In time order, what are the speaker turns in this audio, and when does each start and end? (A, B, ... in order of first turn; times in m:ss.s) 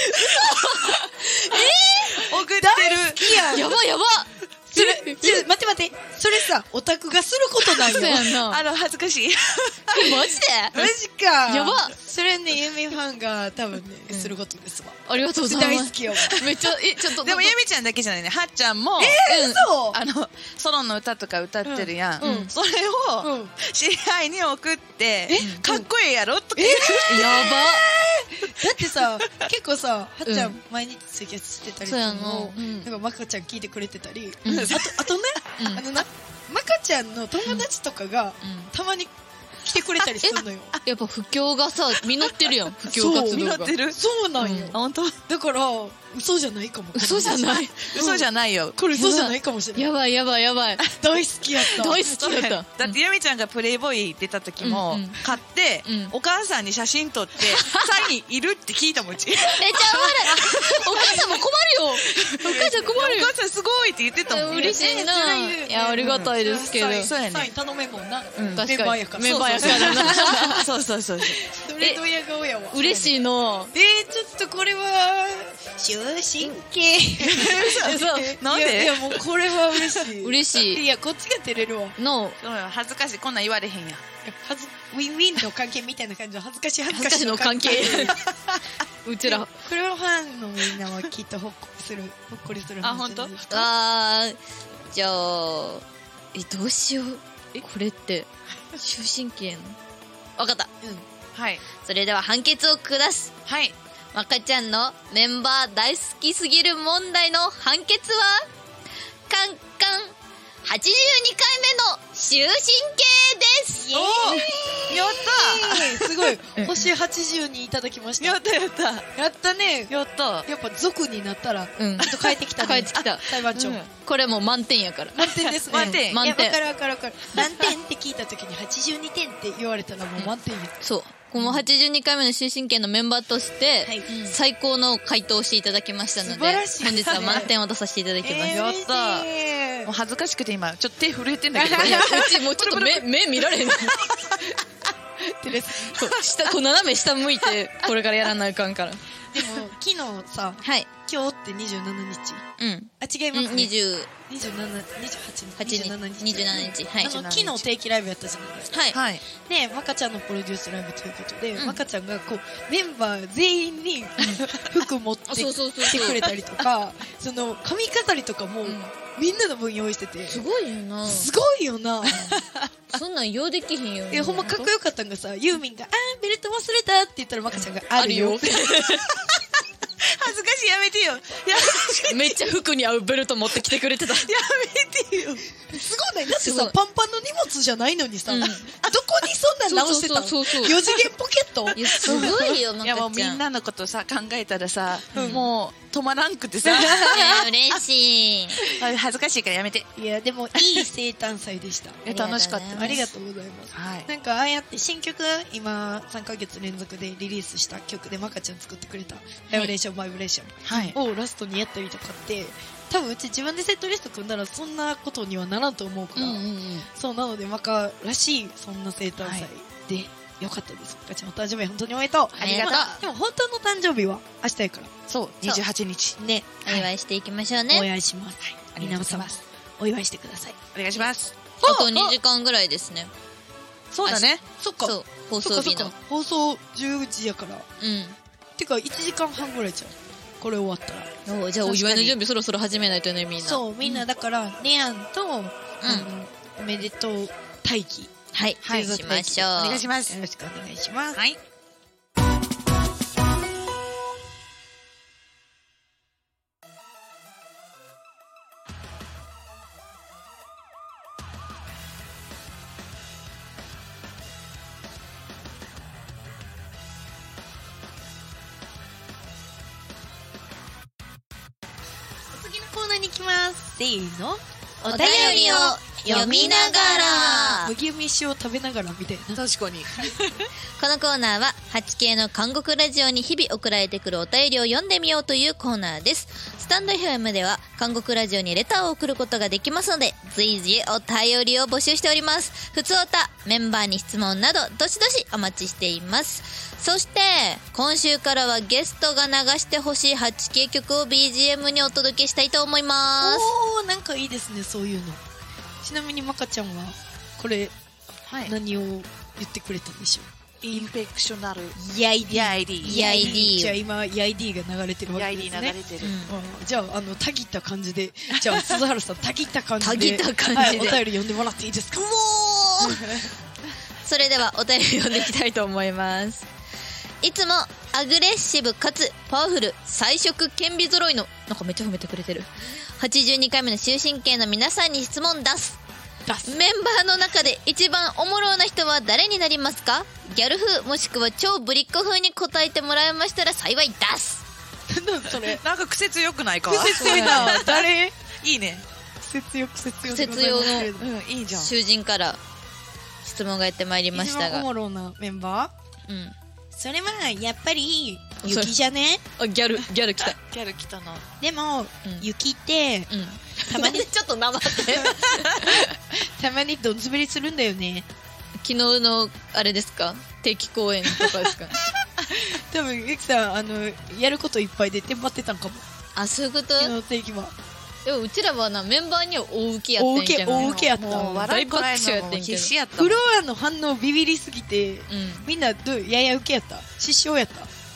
0:00.1-0:02.2 A
0:02.1-0:03.6 B
0:02.4-0:03.8 C
0:03.5-0:05.4 A
0:04.7-0:08.3 C
0:07.8-0:08.6 A
0:08.4-0:10.2 B
0:09.9-0:10.8 A
0:10.7-0:16.4 C
0:11.5-0:11.9 A
0:15.1-0:17.5 A
0:16.4-0:19.3 B
0:19.0-0:20.0 C
0:19.2-0:19.7 A
0:19.9-0:27.3 B
0:21.6-0:22.5 C
0:22.2-0:22.5 A
0:23.2-0:23.5 C
0:25.3-0:25.9 C
0:26.6-0:40.8 C
0:27.0-0:27.8 A
0:30.2-0:30.6 A
0:31.8-0:32.9 A
0:34.4-0:34.8 A
0:34.4-0:35.2 B
0:35.6-0:35.8 A
0:38.4-0:38.7 A
0:40.8-0:43.7 A
0:42.9-0:49.9 C
0:43.1-0:44.0 B
0:44.4-0:44.7 A
0:44.7-0:45.2 B
0:46.9-0:47.9 A
0:47.8-0:48.8 B
0:48.9-0:50.8 A
0:50.8-0:52.0 C
0:51.7-0:53.0 A
0:51.8-1:01.4 B
0:54.6-0:55.2 A
0:55.8-0:56.1 A
0:57.5-0:58.0 A
0:59.5-1:03.3 A
1:02.0-1:04.8 B
1:04.3-1:07.1 A
1:04.4-1:10.6 C
1:06.0-1:06.3 B
1:06.9-1:07.5 B
1:08.4-1:08.6 B
1:08.5-1:10.6 A
1:09.6-1:11.4 B
1:11.2-1:13.1 C
1:12.7-1:13.7 A
1:13.7-1:22.0 C
1:17.2-1:19.2 B
1:17.6-1:18.4 A
1:20.2-1:20.8 A
1:22.0-1:22.4 A
1:22.4-1:24.0 B
1:24.2-1:28.2 C
1:26.9-1:28.2 A
1:29.0-1:29.5 A
1:29.2-1:33.7 C
1:32.8-1:33.4 B
1:33.5-1:39.8 A
1:40.4-1:40.7 A
1:41.3-1:41.6 B
1:41.8-1:43.3 A
1:43.4-1:43.7 B
1:44.1-1:48.5 A
1:49.3-1:53.9 A
1:53.8-1:58.4 C
1:53.9-1:56.3 B
1:56.6-1:56.8 A
1:58.2-1:59.1 B
1:59.1-1:59.9 C
1:59.9-2:00.5 B
2:00.4-2:03.8 C
2:01.8-2:03.3 A
2:03.5-2:03.8 B
2:03.8-2:06.6 A
2:05.1-2:10.8 C
2:05.6-2:06.2 B
2:10.2-2:18.5 A
2:13.8-2:14.2 C
2:16.2-2:17.5 C
2:17.1-2:17.5 B
2:18.2-2:19.9 C
2:18.4-2:19.3 B
2:19.8-2:24.6 B
2:21.5-2:22.4 C
2:21.7-2:24.0 A
2:25.2-2:26.0 C
2:25.8-2:29.0 A
2:26.0-2:26.5 B
2:29.3-2:32.4 C
2:30.6-2:30.9 A
2:32.6-2:34.1 A
2:33.0-2:33.7 C
2:34.3-2:38.7 C
2:35.6-2:37.2 A
2:37.0-2:37.6 B
2:38.7-2:39.0 A
2:38.9-2:39.2 B
2:39.3-2:50.4 C
2:41.6-2:41.8 A
2:45.3-2:46.3 A
2:48.6-2:48.9 A
2:50.3-2:51.3 A
2:51.0-2:52.3 C
2:52.1-2:52.7 B
2:52.9-2:54.7 A
2:54.1-2:58.8 C
2:57.9-2:59.1 A
2:59.1-2:59.4 B
3:00.0-3:02.4 B
3:02.1-3:04.3 A
3:04.1-3:05.4 B
3:05.6-3:12.6 C
3:06.3-3:06.7 A
3:08.3-3:08.7 A
3:09.7-3:10.8 A
3:11.7-3:13.4 A
3:12.0-3:17.8 B
3:15.1-3:15.4 A
3:15.1-3:15.4 C
3:16.6-3:17.4 C
3:16.9-3:18.6 A
3:18.6-3:19.9 B
3:20.0-3:44.9 C
3:20.6-3:20.8 B
3:22.0-3:23.1 A
3:22.1-3:23.0 B
3:23.7-3:24.1 B
3:30.6-3:31.0 B
3:36.2-3:36.7 B
3:39.2-3:39.5 B
3:42.4-3:43.0 B
3:42.4-3:42.9 A
3:45.1-3:46.2 B
3:46.2-3:46.9 C
3:46.6-3:47.9 A
3:47.7-3:51.0 C
3:48.5-3:49.4 B
3:50.7-3:51.5 B
3:51.6-3:52.1 C
3:51.6-3:53.1 A
3:53.9-3:54.4 B
3:54.0-3:55.9 A
3:54.4-3:57.7 C
3:57.8-3:58.2 A
3:58.6-4:01.1 C
4:01.2-4:04.0 A
4:01.6-4:02.1 C
4:03.4-4:11.2 C
4:05.8-4:06.1 A
4:08.3-4:09.8 A
4:08.6-4:08.9 B
4:09.6-4:10.2 B
4:32.3-4:39.4 C
4:34.8-4:37.7 A
4:39.3-4:40.5 B
4:40.8-5:03.5 A
5:03.2-5:05.2 C
5:05.8-5:07.7 C
5:08.3-5:08.5 B
5:08.4-5:10.9 C
5:10.6-5:11.8 B
5:11.7-5:22.1 C
5:12.3-5:13.4 B
5:12.8-5:13.8 A
5:15.1-5:16.1 B
5:16.0-5:16.3 A
5:19.8-5:21.0 A
5:21.9-5:23.2 A
5:22.8-5:23.3 C
5:24.0-5:26.5 A
5:27.2-5:35.8 A
5:36.2-5:36.6 C
5:36.4-5:44.4 A
5:44.9-5:45.6 C
5:45.4-5:47.8 B
5:46.6-5:48.1 C
5:47.0-5:47.7 A
5:48.4-5:48.8 B
5:49.2-5:51.1 C
5:50.0-5:50.9 A
5:50.9-5:51.7 B
5:51.5-5:52.4 A
5:53.2-5:54.7 A
5:54.1-5:55.7 C
5:56.1-5:56.3 A
5:56.7-5:59.2 C
5:58.4-5:58.7 A
5:59.4-6:00.4 A
6:00.2-6:01.3 B
6:01.4-6:03.1 C
6:03.1-6:05.9 A
6:03.6-6:04.1 C
6:04.8-6:05.2 C
6:05.8-6:08.1 C
6:08.6-6:11.8 A
6:11.1-6:11.4 C
6:12.3-6:15.8 C
6:16.1-6:16.9 A
6:16.8-6:17.5 C
6:18.0-6:22.7 A
6:20.0-6:21.5 C
6:20.6-6:23.2 B
6:23.0-6:27.7 C
6:25.1-6:25.5 A